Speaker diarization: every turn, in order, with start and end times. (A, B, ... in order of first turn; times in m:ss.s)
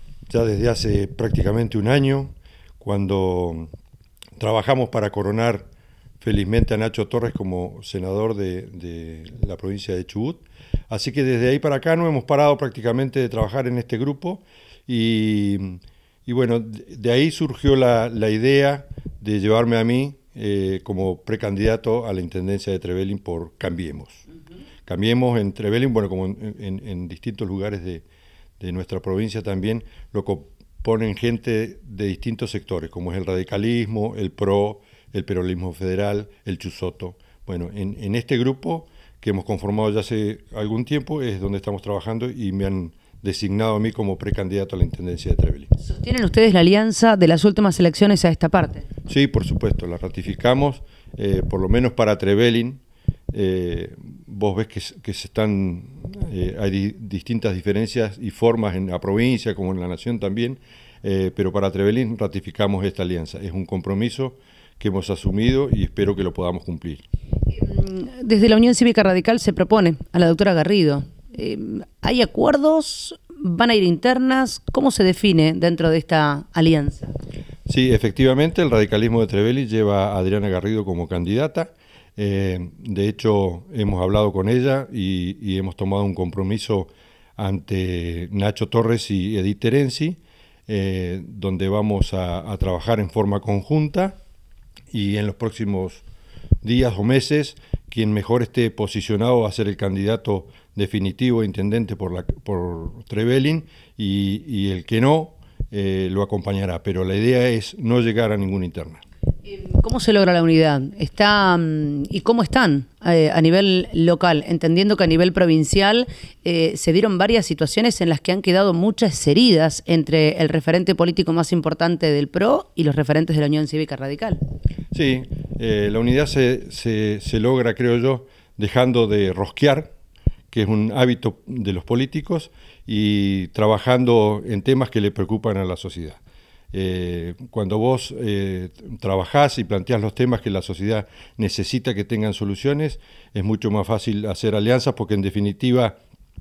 0:00.3-0:03.7 A
0:04.4-0:05.6 A
0:06.2-0:24.2 A
0:24.9-0:28.0 A
0:28.6-0:45.7 A
0:45.8-0:48.9 B
0:49.1-0:52.8 A
0:53.3-1:07.0 A
1:07.5-1:17.1 B
1:17.7-1:34.2 A
1:34.9-1:36.0 A
1:36.6-1:49.0 A
1:49.4-2:04.4 B
2:04.9-2:09.9 A
2:10.5-2:16.2 A
2:16.7-2:26.0 A